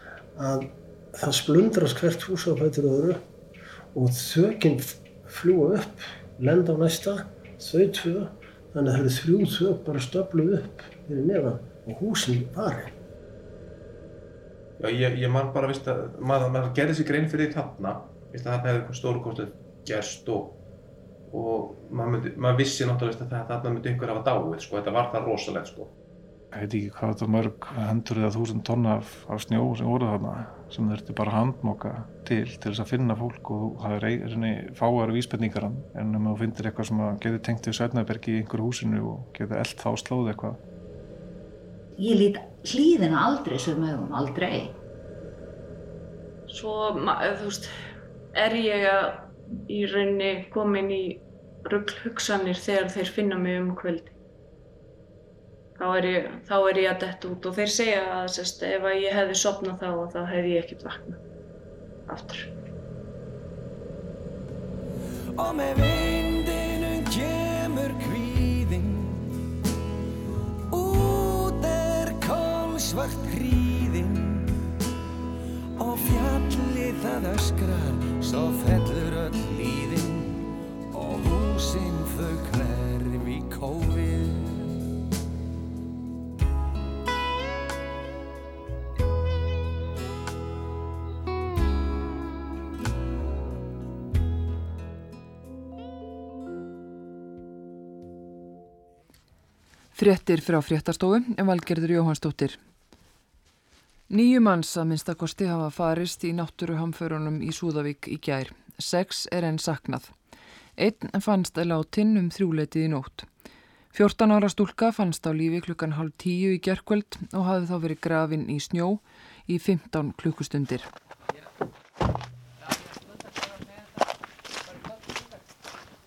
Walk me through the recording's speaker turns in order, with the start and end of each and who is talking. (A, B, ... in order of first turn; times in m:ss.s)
0:00.3-0:03.2 A
0:03.9-0:12.9 A
0:14.8-0:20.6 B
0:21.3-0:25.9 B
0:26.5-0:40.6 C
0:42.0-0:44.8 D
0:46.5-0:47.7 E
0:48.3-0:54.2 E
0:55.8-1:01.2 E
1:02.1-1:02.5 E
1:05.3-1:09.3 F
1:10.7-1:14.6 F
1:15.8-1:24.8 F
1:39.9-1:42.6 G
1:44.1-1:50.2 G
1:50.8-1:53.3 G
1:53.9-2:00.9 G